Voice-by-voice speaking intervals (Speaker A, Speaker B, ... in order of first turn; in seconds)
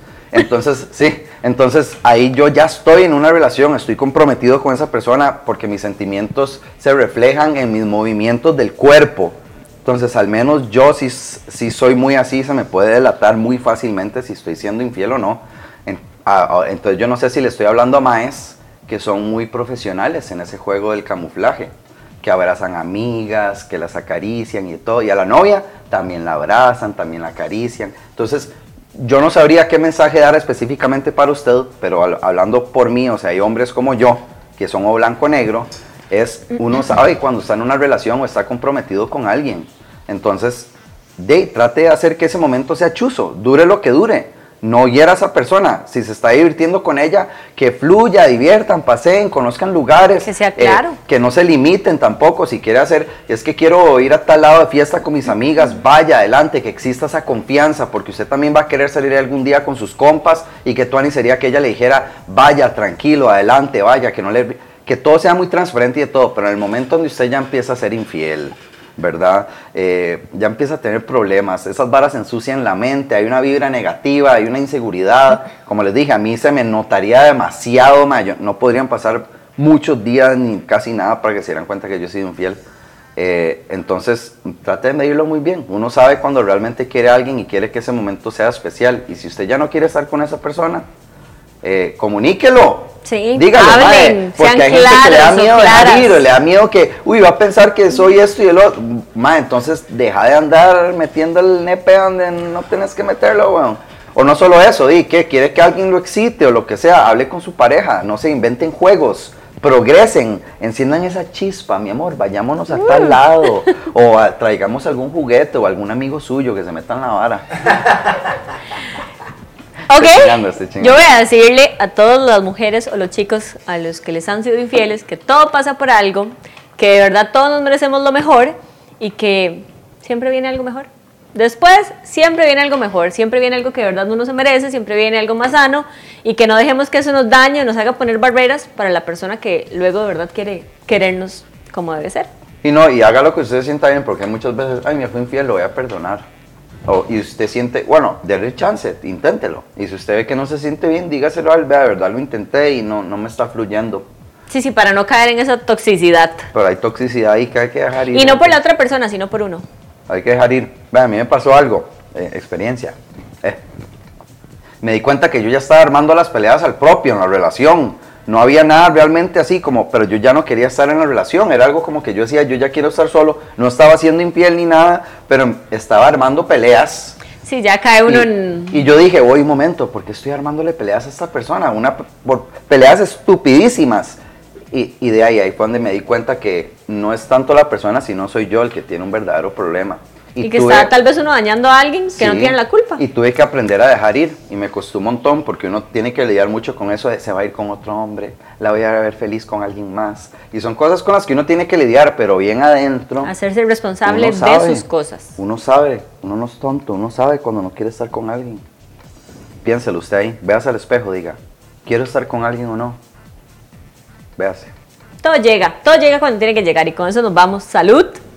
Speaker A: 0.3-82.6, 83.2-90.8, 91.6-117.6, 119.9-121.0, 142.6-146.2, 146.8-154.1, 156.5-158.6, 160.1-163.6, 164.8-177.2, 178.1-184.2, 184.7-190.9, 192.2-203.3, 204.0-204.8, 205.4-208.6, 209.6-213.0, 214.4-214.7
Speaker B: 50.2-51.0, 93.0-96.2, 119.9-142.3, 154.5-156.5, 158.1-159.6, 177.4-178.8, 190.4-193.0, 203.2-205.3, 215.2-218.2